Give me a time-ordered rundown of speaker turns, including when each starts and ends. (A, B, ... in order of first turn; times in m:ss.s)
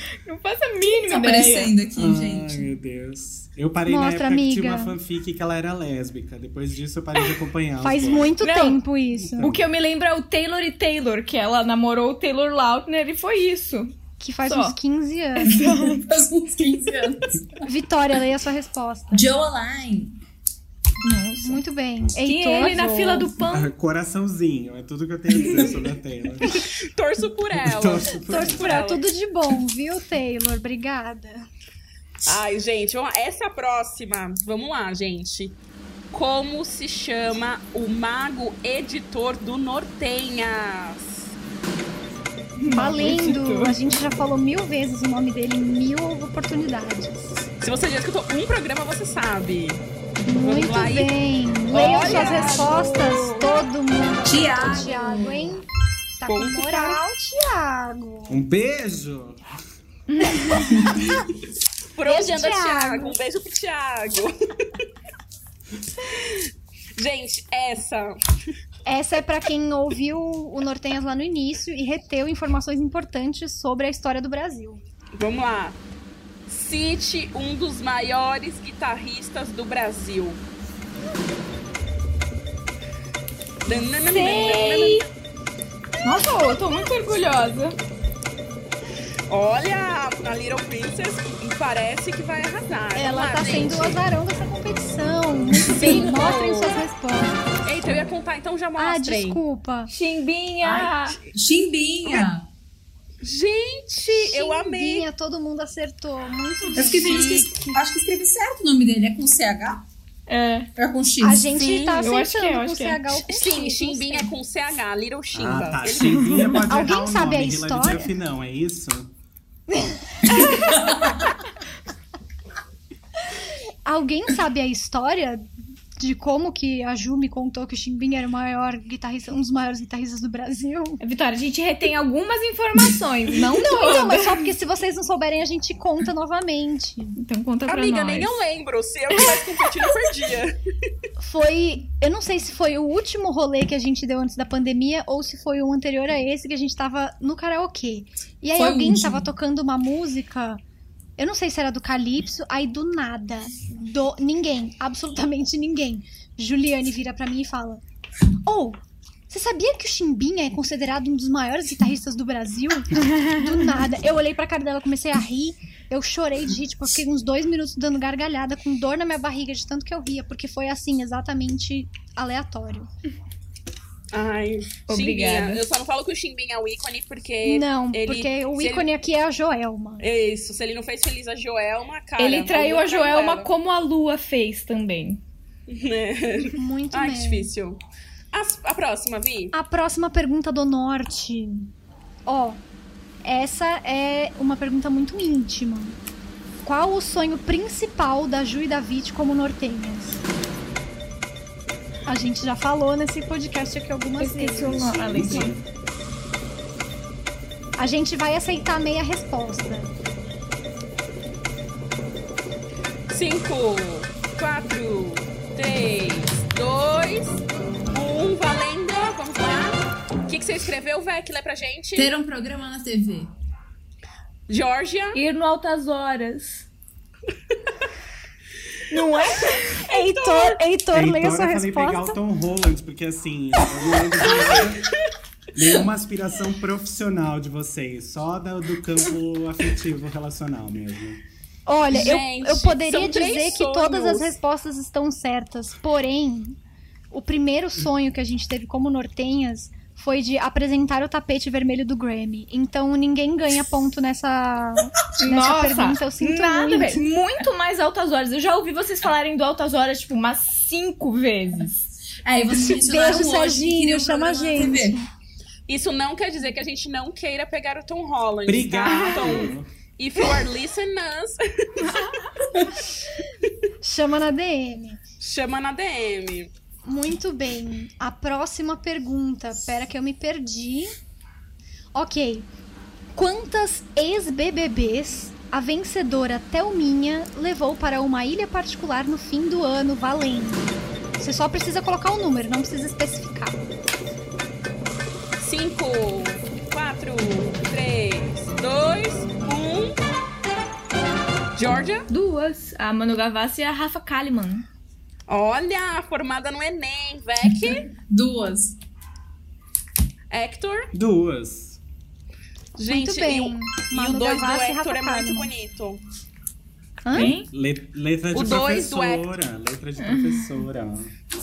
0:00.2-0:01.8 A
0:01.0-0:02.7 B
0:01.9-0:08.4 C
0:03.9-0:04.9 D
0:07.8-0:09.4 D
0:08.4-0:08.8 A
0:09.2-0:09.6 C
0:09.4-0:13.9 A
0:14.2-0:15.6 D
0:14.5-0:14.8 A
0:15.4-0:16.0 A
0:15.5-0:17.6 B
0:17.6-0:19.3 D
0:19.1-0:20.2 B
0:21.0-0:21.6 A
0:21.4-0:23.3 D
0:22.1-0:23.7 A
0:23.5-0:26.5 C
0:26.5-0:29.0 E
0:27.5-0:28.8 C
0:28.2-0:31.4 D
0:32.2-0:35.6 E
0:36.1-0:41.3 E
0:42.6-0:43.8 A
0:42.7-0:47.3 D
0:47.6-0:49.8 E
0:50.2-0:55.6 D
0:50.4-0:51.1 E
0:51.7-0:52.7 E
0:51.7-0:53.5 A
0:54.2-0:55.6 B
0:56.2-0:58.4 D
0:56.2-0:57.0 E
0:58.3-0:59.4 C
1:00.1-1:00.8 A
1:00.7-1:01.0 B
1:02.0-1:04.8 E
1:02.0-1:03.2 D
1:06.0-1:08.2 E
1:08.8-1:14.8 D
1:15.2-1:15.8 E
1:16.5-1:20.4 E
1:23.6-1:25.1 E
1:24.1-1:25.1 A
1:26.0-1:27.8 A
1:29.3-1:34.0 E
1:32.9-1:37.8 D
1:35.7-1:36.8 E
1:37.6-1:39.4 E
1:38.8-1:39.9 D
1:39.9-1:41.2 A
1:40.6-1:42.5 B
1:43.2-1:45.1 E
1:44.1-1:47.8 D
1:46.8-1:49.8 B
1:46.8-1:47.2 A
1:50.3-1:50.7 A
1:50.8-1:51.8 B
1:51.2-1:54.3 D
1:51.6-1:52.0 E
1:51.8-1:53.2 A
1:53.3-1:56.5 E
1:55.3-1:59.1 C
1:56.7-1:58.1 D
2:00.4-2:01.2 B
2:03.8-2:11.0 D
2:11.0-2:14.5 A
2:13.5-2:17.2 D
2:17.2-2:18.4 A
2:17.7-2:20.6 E
2:21.2-2:30.6 D
2:28.6-2:29.2 B
2:31.2-2:37.8 D
2:38.4-2:52.9 D
2:43.0-2:43.6 A
2:54.1-2:58.9 E
2:54.9-2:55.6 A
2:57.4-3:00.0 D
3:00.0-3:03.5 E
3:02.2-3:05.2 A
3:05.7-3:07.8 E
3:06.6-3:07.5 D
3:08.3-3:09.5 E
3:09.5-3:11.7 D
3:12.2-3:12.6 D
3:13.2-3:16.0 D
3:16.6-3:20.2 D
3:22.1-3:25.4 D
3:24.2-3:25.6 A
3:24.7-3:25.6 C
3:27.8-3:29.9 D
3:33.1-3:42.1 E
3:42.0-3:43.3 B
3:44.5-3:45.2 E
3:45.1-3:46.7 A
3:48.9-3:49.8 A
3:49.9-3:52.2 D
3:49.9-3:50.6 E
3:50.9-3:54.9 C
3:55.5-4:01.2 C
4:01.7-4:06.6 D
4:01.9-4:04.3 E
4:07.1-4:17.0 D
4:15.2-4:21.9 A
4:22.2-4:25.0 B
4:22.6-4:25.1 D
4:25.7-4:32.0 E
4:28.4-4:29.7 C
4:28.9-4:29.4 A
4:31.8-4:32.2 A
4:33.8-4:35.0 D
4:35.2-4:36.5 E
4:36.8-4:40.9 D
4:41.9-4:42.5 D
4:43.1-4:53.6 D
4:55.4-5:00.0 E
5:01.6-5:02.1 E
5:02.1-5:04.6 A
5:05.3-5:07.9 E
5:07.4-5:08.8 B
5:10.3-5:10.9 E
5:10.9-5:11.8 C
5:12.8-5:16.0 E
5:12.9-5:15.5 D
5:17.0-5:17.3 D
5:17.1-5:17.5 A
5:17.1-5:21.1 C
5:18.3-5:19.3 E
5:20.0-5:20.6 A